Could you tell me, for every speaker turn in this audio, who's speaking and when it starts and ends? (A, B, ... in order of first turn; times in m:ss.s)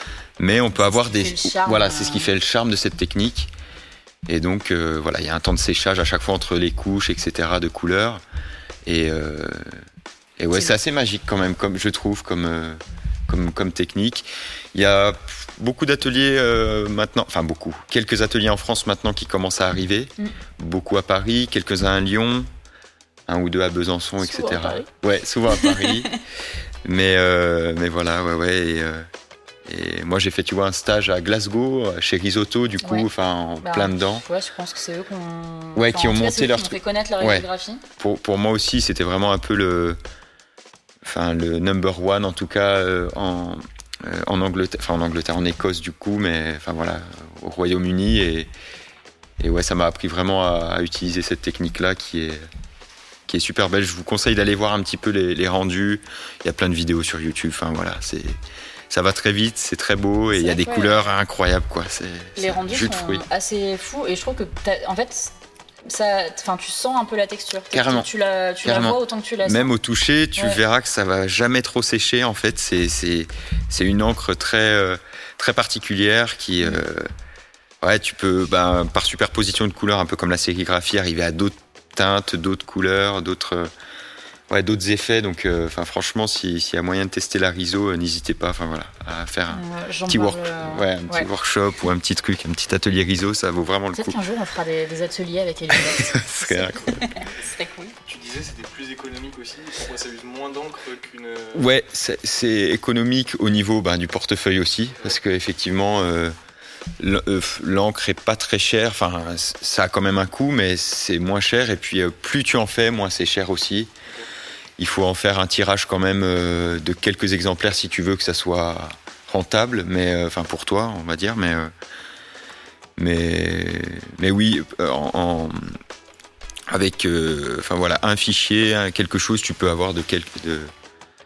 0:00.4-0:03.5 A
0:00.7-0:02.3 B
0:04.3-0:08.2 A
0:08.8-0:09.8 A
0:10.4-0:22.5 A
0:23.3-0:26.1 A
0:24.2-0:24.9 B
0:25.5-0:26.1 B
0:26.8-0:29.1 A
0:29.6-0:34.2 A
0:32.8-0:33.1 B
0:33.6-0:37.8 B
0:35.7-0:37.4 A
0:38.0-0:40.0 A
0:41.0-0:48.5 A
0:49.4-0:52.4 A
0:53.3-0:58.4 A
0:58.9-1:03.2 A
1:00.3-1:01.1 B
1:02.4-1:05.3 B
1:05.8-1:09.7 B
1:07.7-1:08.1 A
1:08.6-1:17.1 A
1:17.8-1:23.7 A
1:24.5-1:34.1 A
1:29.5-1:31.3 B
1:33.9-1:37.9 B
1:35.8-1:37.0 A
1:38.0-1:41.7 C
1:41.5-1:46.3 A
1:47.0-1:53.9 A
1:54.8-2:01.7 A
2:03.0-2:05.8 A
2:06.7-2:10.7 A